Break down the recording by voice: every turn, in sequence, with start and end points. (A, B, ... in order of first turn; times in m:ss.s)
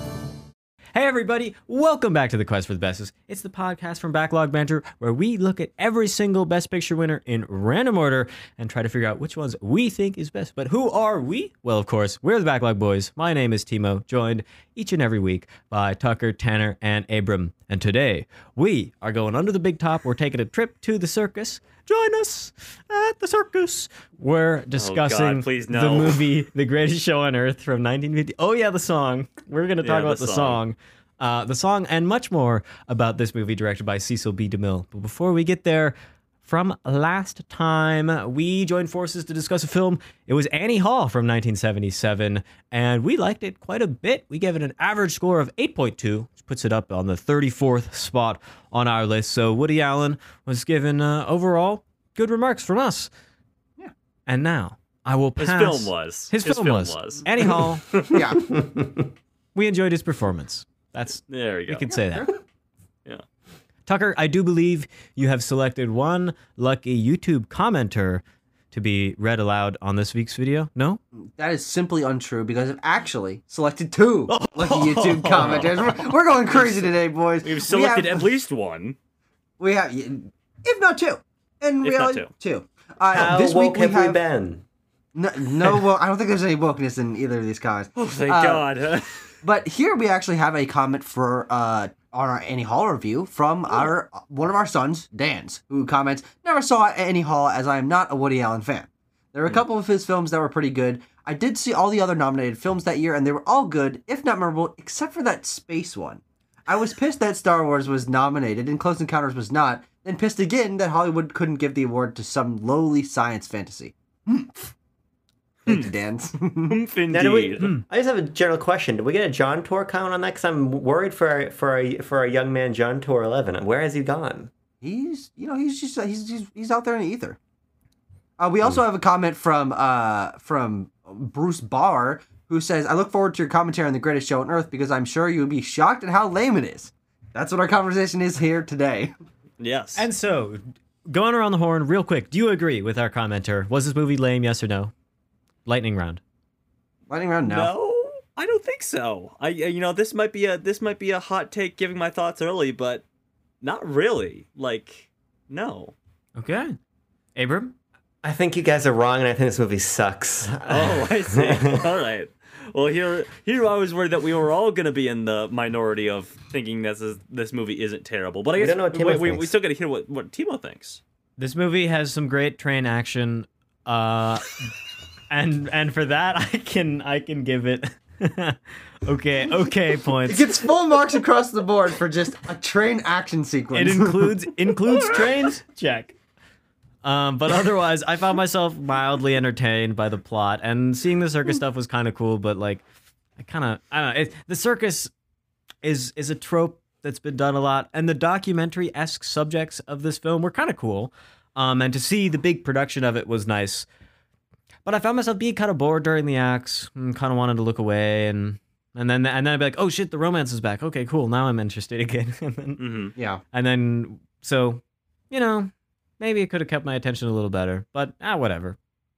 0:00.9-0:53.1 A
0:24.8-0:26.2 B
0:29.8-0:30.6 B
0:54.3-0:58.0 A
0:55.4-0:58.2 B
0:58.1-0:58.4 C
0:58.5-0:59.0 D
0:59.6-1:02.3 A
1:01.3-1:01.9 B
1:01.9-1:02.4 C
1:03.9-1:11.0 A
1:11.2-1:18.2 C
1:14.3-1:15.7 A
1:15.4-1:15.9 B
1:16.5-1:16.9 B
1:17.4-1:19.0 B
1:19.6-1:24.2 C
1:21.8-1:22.3 B
1:23.1-1:24.6 D
1:25.2-1:28.6 C
1:28.0-1:29.3 B
1:29.4-1:54.7 C
1:55.6-1:56.8 C
1:56.6-1:57.7 B
1:57.1-2:04.5 D
2:04.8-2:07.4 C
2:08.4-2:19.1 C
2:19.6-2:20.1 B
2:20.0-2:24.9 A
2:25.7-2:26.2 A
2:27.1-2:27.7 C
2:27.4-2:33.0 B
2:33.6-2:35.9 B
2:36.4-2:36.8 A
2:37.4-2:37.7 A
2:38.2-2:41.8 D
2:40.7-2:51.0 B
2:48.6-2:49.5 D
2:51.4-2:54.7 A
2:55.3-3:00.6 A
3:00.3-3:04.4 C
3:03.7-3:06.2 A
3:07.0-3:12.8 A
3:13.4-3:15.1 A
3:15.8-3:23.9 A
3:24.9-3:32.8 A
3:32.8-3:33.1 B
3:33.2-3:33.4 C
3:33.5-3:38.8 A